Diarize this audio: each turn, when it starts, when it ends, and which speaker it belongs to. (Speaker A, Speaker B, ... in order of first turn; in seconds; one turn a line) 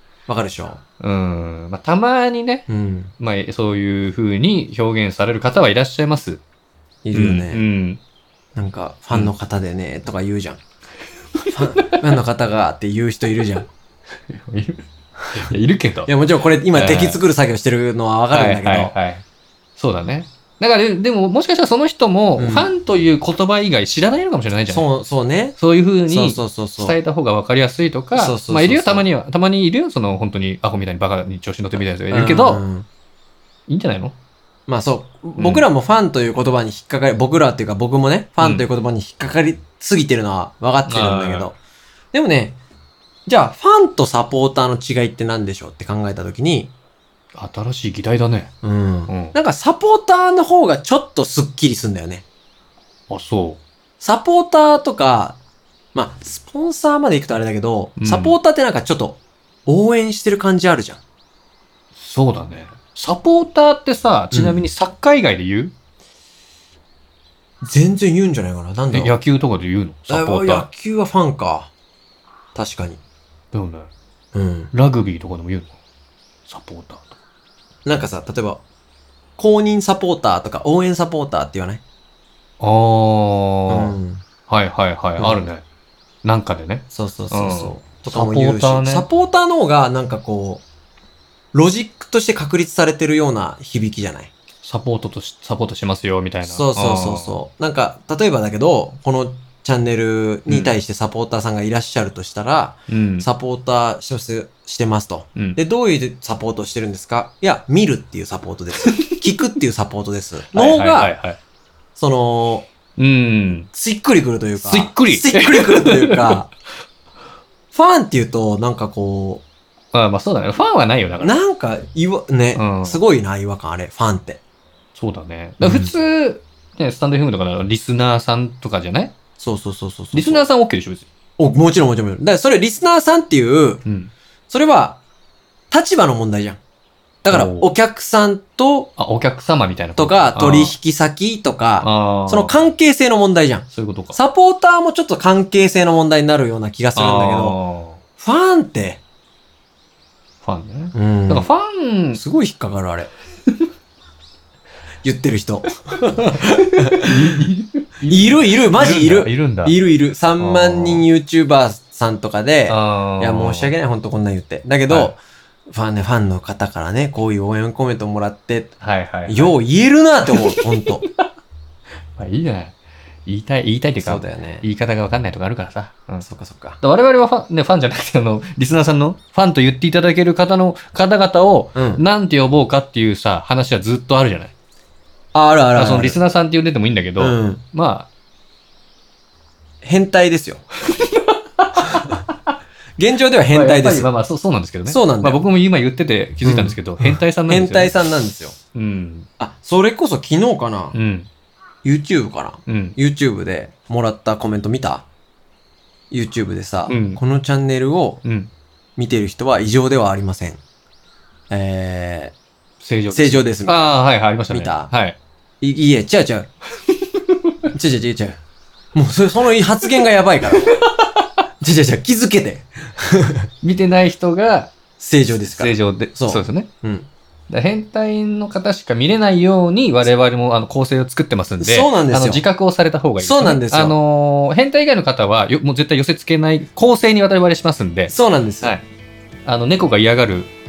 Speaker A: 0.3-0.8
Speaker B: 1.0-2.7
Speaker A: 2.7-3.1
Speaker B: 3.2-6.4
Speaker A: 7.0-7.6
Speaker B: 7.1-8.0
Speaker A: 8.6-10.6
Speaker B: 11.4-12.0
Speaker A: 11.5-13.7
Speaker B: 14.3-16.1
Speaker A: 16.1-18.9
Speaker B: 16.7-17.2
Speaker B: 18.3-19.2
Speaker B: 19.8-24.9
Speaker A: 22.4-22.7
Speaker A: 24.7-25.6
Speaker B: 25.6-32.6
Speaker A: 26.1-26.9
Speaker A: 28.1-29.1
Speaker A: 32.1-32.9
Speaker B: 33.7-34.1
Speaker A: 34.7-41.6
Speaker B: 35.4-35.6
Speaker B: 38.4-38.6
Speaker B: 40.9-41.5
Speaker A: 42.1-42.6
Speaker A: 43.2-46.7
Speaker B: 47.4-48.5
Speaker A: 48.6-52.2
Speaker B: 49.1-49.3
Speaker B: 53.1-53.6
Speaker A: 54.0-55.4
Speaker A: 55.9-61.0
Speaker B: 58.0-58.4
Speaker B: 62.0-65.7
Speaker A: 64.3-64.7
Speaker A: 67.6-69.1
Speaker B: 68.9-70.7
Speaker A: 70.1-71.7
Speaker A: 72.5-73.0
Speaker B: 73.5-73.9
Speaker A: 74.3-74.7
Speaker B: 74.7-75.7
Speaker B: 76.5-77.1
Speaker A: 77.8-78.6
Speaker A: 79.4-81.8
Speaker B: 82.6-84.0
Speaker A: 83.7-84.2
Speaker B: 84.5-85.6
Speaker A: 85.2-85.4
Speaker B: 86.2-89.1
Speaker A: 86.9-90.6
Speaker A: 91.5-94.3
Speaker B: 94.6-97.4
Speaker A: 96.4-111.1
Speaker B: 100.5-100.7
Speaker B: 102.9-103.2
Speaker B: 108.8-109.2
Speaker B: 110.5-111.4
Speaker A: 112.0-112.7
Speaker B: 113.0-113.7
Speaker A: 113.7-116.5
Speaker B: 114.6-116.4
Speaker A: 117.7-119.4
Speaker B: 119.9-121.3
Speaker A: 121.2-124.4
Speaker B: 122.5-123.0
Speaker B: 124.9-129.1
Speaker A: 125.6-126.0
Speaker A: 129.4-130.4
Speaker B: 130.1-131.1
Speaker A: 131.4-133.8
Speaker B: 133.8-134.1
Speaker A: 134.5-135.0
Speaker A: 135.7-136.6
Speaker A: 137.2-138.9
Speaker B: 137.3-137.7
Speaker B: 139.0-140.8
Speaker A: 139.9-147.6
Speaker B: 141.8-142.5
Speaker B: 143.7-144.2
Speaker B: 146.9-148.0
Speaker A: 148.2-149.0
Speaker B: 150.4-152.2
Speaker A: 150.9-151.5
Speaker A: 152.1-153.1
Speaker A: 155.0-157.4
Speaker B: 156.4-159.8
Speaker A: 158.1-168.7
Speaker B: 160.4-161.0
Speaker B: 162.7-163.7
Speaker B: 168.8-169.5
Speaker A: 169.3-171.0
Speaker B: 170.3-171.3
Speaker B: 172.2-176.2
Speaker A: 174.0-174.7
Speaker A: 176.2-176.8
Speaker B: 176.8-184.5
Speaker A: 181.7-182.0
Speaker A: 185.3-186.2
Speaker B: 185.7-188.1
Speaker A: 187.2-187.6
Speaker A: 189.8-190.6
Speaker B: 190.9-192.3
Speaker A: 193.0-194.1
Speaker B: 193.5-198.0
Speaker A: 194.8-195.4
Speaker A: 196.4-198.6
Speaker B: 198.7-199.3
Speaker A: 199.4-200.9
Speaker B: 200.9-201.3
Speaker A: 201.8-205.1
Speaker B: 202.7-202.9
Speaker A: 206.1-208.2
Speaker B: 206.9-207.2
Speaker B: 208.2-208.5
Speaker A: 209.0-210.6
Speaker A: 211.5-212.3
Speaker B: 212.8-215.2
Speaker A: 213.1-213.8
Speaker A: 214.5-214.9
Speaker A: 215.6-216.5
Speaker A: 217.7-218.4
Speaker A: 218.9-220.7
Speaker B: 220.8-221.1
Speaker A: 221.6-223.5
Speaker B: 223.6-224.8
Speaker A: 225.0-227.1
Speaker B: 225.6-226.7
Speaker B: 227.5-238.8
Speaker A: 231.6-232.4
Speaker A: 233.2-233.9
Speaker A: 238.1-238.7
Speaker B: 239.4-240.5